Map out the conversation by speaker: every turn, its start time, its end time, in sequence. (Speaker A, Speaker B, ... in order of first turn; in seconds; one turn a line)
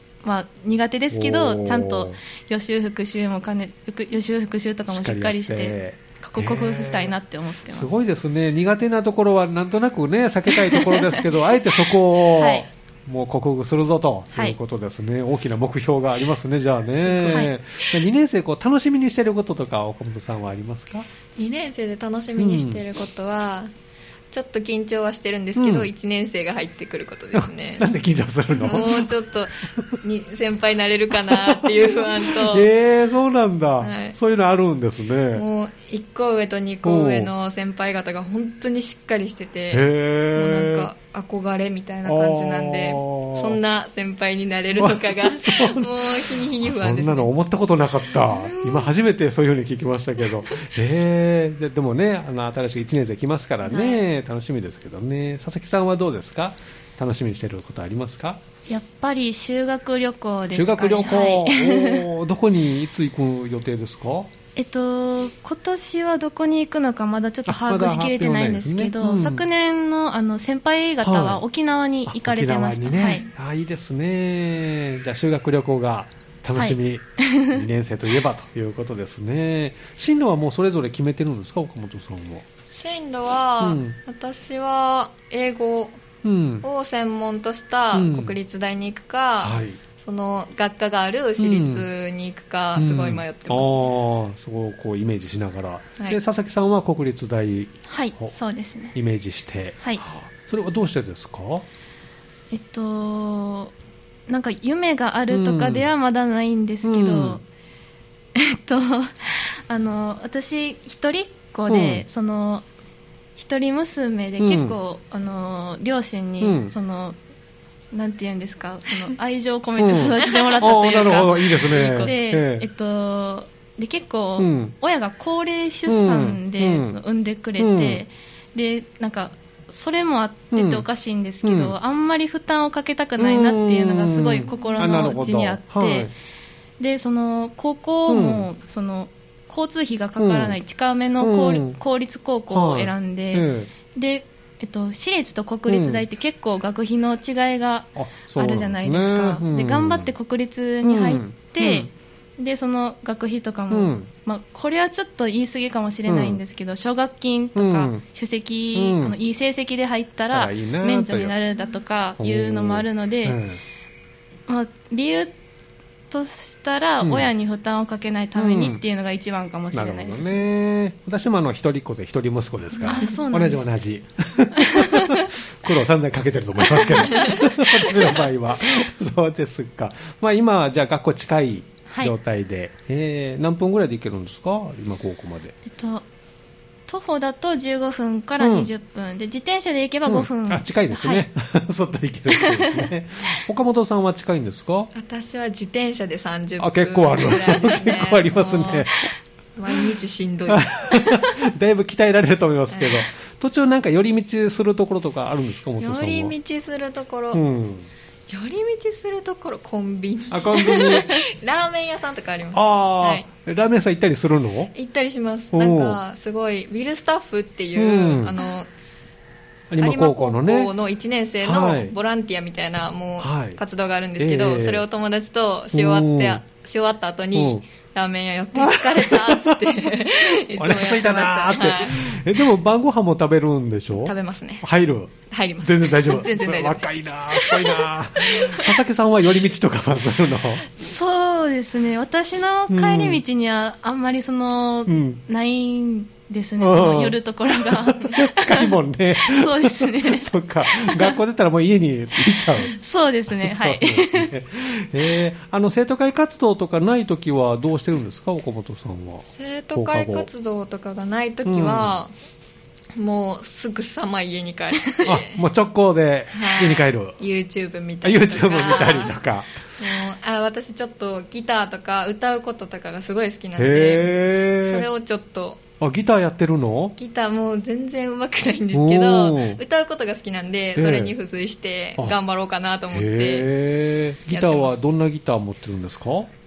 Speaker A: 0.2-7.9
Speaker B: 1.1-2.2
Speaker B: 4.9-7.1
Speaker B: 7.7-21.1
Speaker A: 10.5-11.2
Speaker A: 12.3-12.7
Speaker C: 17.0-17.5
Speaker C: 21.4-23.7
Speaker B: 22.4-22.8
Speaker C: 24.3-27.9
Speaker B: 25.6-25.9
Speaker B: 27.3-29.1
Speaker C: 28.6-32.7
Speaker B: 31.1-35.5
Speaker C: 33.8-34.1
Speaker C: 35.3-47.3
Speaker B: 36.8-37.3
Speaker B: 39.7-40.9
Speaker B: 42.0-43.6
Speaker B: 44.7-58.4
Speaker C: 48.1-48.9
Speaker A: 58.7-62.1
Speaker B: 60.5-64.3
Speaker A: 64.5-73.2
Speaker B: 67.5-69.4
Speaker B: 71.0-71.4
Speaker B: 72.0-82.5
Speaker A: 76.5-77.6
Speaker C: 82.7-86.0
Speaker B: 83.6-84.0
Speaker B: 86.2-86.7
Speaker C: 86.6-93.9
Speaker B: 87.9-88.3
Speaker B: 89.4-89.8
Speaker B: 91.4-91.8
Speaker B: 92.8-98.3
Speaker A: 97.9-99.0
Speaker B: 98.9-101.7
Speaker A: 102.5-103.7
Speaker A: 104.3-107.4
Speaker B: 105.3-105.9
Speaker B: 106.8-107.4
Speaker A: 108.3-112.6
Speaker B: 111.7-112.0
Speaker A: 113.4-117.2
Speaker B: 114.4-114.8
Speaker B: 116.4-116.8
Speaker A: 117.9-136.1
Speaker B: 119.8-122.7
Speaker C: 121.6-122.1
Speaker B: 124.4-124.7
Speaker B: 125.9-127.0
Speaker B: 127.6-128.0
Speaker B: 130.5-130.8
Speaker B: 131.4-131.8
Speaker B: 133.2-136.1
Speaker A: 136.8-163.4
Speaker B: 138.1-138.5
Speaker B: 140.2-140.6
Speaker B: 141.2-141.8
Speaker B: 142.5-143.7
Speaker B: 145.7-146.0
Speaker B: 147.9-150.1
Speaker B: 150.8-151.9
Speaker B: 153.7-154.1
Speaker B: 156.1-156.4
Speaker B: 157.5-158.0
Speaker B: 158.7-159.2
Speaker B: 160.3-161.3
Speaker B: 162.2-163.6
Speaker A: 164.5-165.3
Speaker A: 166.1-170.4
Speaker B: 167.0-167.3
Speaker B: 168.3-168.8
Speaker B: 169.7-185.6
Speaker A: 172.8-173.7
Speaker A: 174.5-175.3
Speaker A: 176.7-177.4
Speaker A: 185.7-186.1
Speaker A: 186.9-191.3
Speaker B: 188.4-188.7
Speaker B: 190.1-194.9
Speaker A: 192.3-192.9
Speaker C: 194.9-198.9
Speaker B: 196.6-199.1
Speaker C: 199.6-201.3
Speaker B: 200.5-206.3
Speaker C: 202.7-203.0
Speaker C: 205.8-207.4
Speaker B: 207.3-207.9
Speaker C: 208.3-213.2
Speaker B: 210.3-211.2
Speaker B: 212.5-214.7
Speaker C: 214.7-218.7
Speaker B: 215.5-216.0
Speaker B: 217.8-218.4
Speaker B: 219.7-220.7
Speaker C: 219.8-232.2
Speaker B: 221.4-221.9
Speaker B: 223.2-223.6
Speaker B: 224.2-224.8
Speaker B: 225.7-226.4
Speaker B: 227.3-227.6
Speaker B: 228.6-240.7
Speaker C: 234.0-234.6
Speaker C: 235.3-238.8
Speaker A: 240.7-251.2
Speaker B: 242.7-243.2
Speaker B: 244.9-245.2
Speaker B: 246.6-252.7
Speaker A: 252.7-254.3
Speaker B: 253.3-260.3
Speaker C: 259.3-262.1
Speaker B: 261.4-262.0
Speaker C: 262.9-265.4
Speaker B: 265.0-267.2
Speaker C: 266.3-269.2
Speaker B: 268.0-269.5
Speaker C: 269.8-275.6
Speaker B: 273.6-274.9
Speaker B: 275.8-276.9
Speaker C: 277.0-283.5
Speaker B: 278.7-279.6
Speaker B: 280.8-281.1
Speaker B: 282.9-286.3
Speaker C: 284.3-284.7